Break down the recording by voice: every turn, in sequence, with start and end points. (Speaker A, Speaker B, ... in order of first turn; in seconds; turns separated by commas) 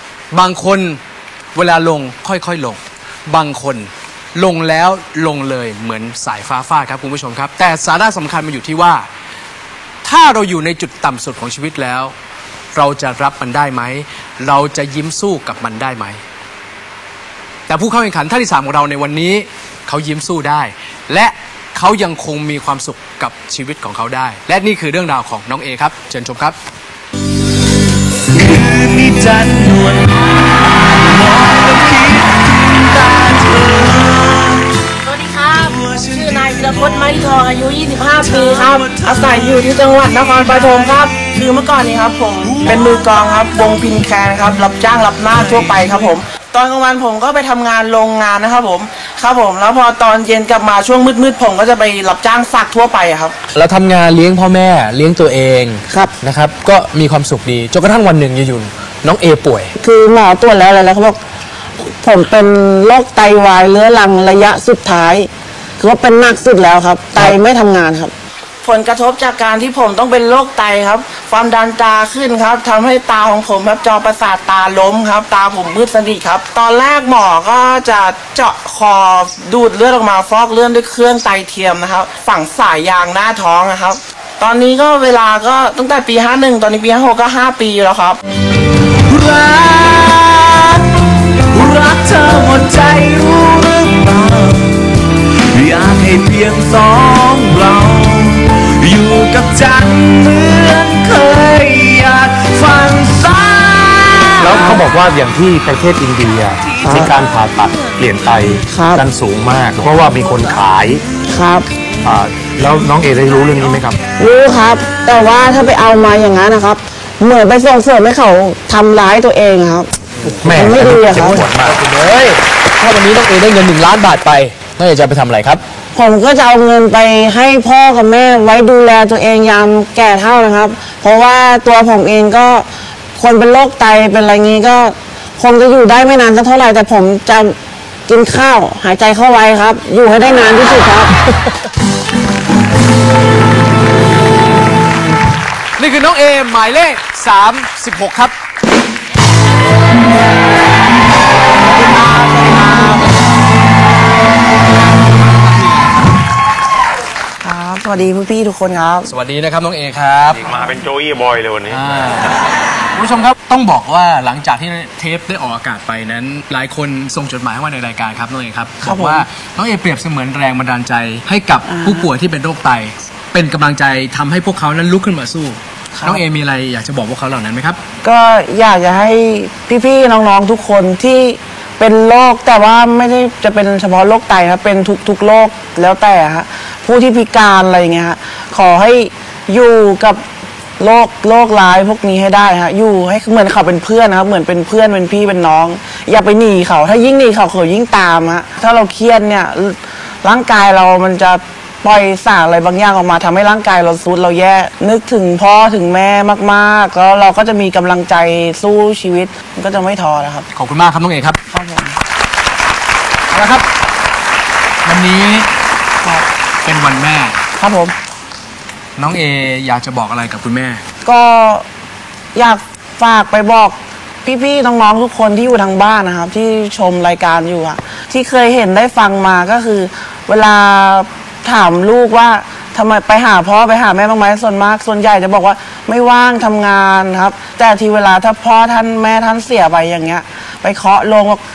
Speaker A: 0.3-1.0, Speaker A: 1.5-9.1, Speaker A: 10.0-12.1, Speaker A: 12.7-16.2, Speaker A: 17.7-26.6, Speaker B: 28.3-34.7, Speaker C: 35.1-53.3, Speaker B: 35.5-37.5, Speaker B: 38.1-41.5, Speaker B: 42.4-43.2, Speaker B: 45.2-46.1, Speaker A: 53.5-59.7, Speaker C: 55.9-56.1, Speaker C: 59.8-61.2, Speaker C: 61.8-88.2, Speaker B: 89.1-90.8, Speaker B: 91.5-94.8, Speaker B: 95.5-104.8, Speaker D: 104.4-111.0, Speaker C: 106.8-107.1, Speaker C: 108.7-109.0, Speaker C: 111.3-111.7, Speaker D: 112.0-114.0, Speaker C: 114.2-119.9, Speaker D: 120.4-121.8, Speaker A: 120.4-125.6, Speaker C: 120.5-121.4, Speaker C: 125.9-137.6, Speaker C: 138.1-141.1, Speaker A: 145.8-148.3, Speaker C: 151.6-153.1, Speaker A: 155.4-155.9, Speaker C: 157.4-159.1, Speaker A: 159.1-160.4, Speaker D: 160.4-162.1, Speaker A: 161.7-162.3, Speaker A: 162.9-177.8, Speaker C: 168.8-169.2, Speaker C: 171.7-172.1, Speaker C: 175.9-176.2, Speaker C: 178.0-190.2, Speaker C: 190.8-210.4, Speaker A: 210.5-211.4, Speaker C: 211.5-212.0, Speaker A: 213.3-213.6, Speaker A: 214.8-215.5, Speaker A: 216.6-217.4, Speaker C: 217.6-217.9, Speaker A: 219.0-220.8, Speaker C: 221.0-221.6, Speaker C: 222.3-241.4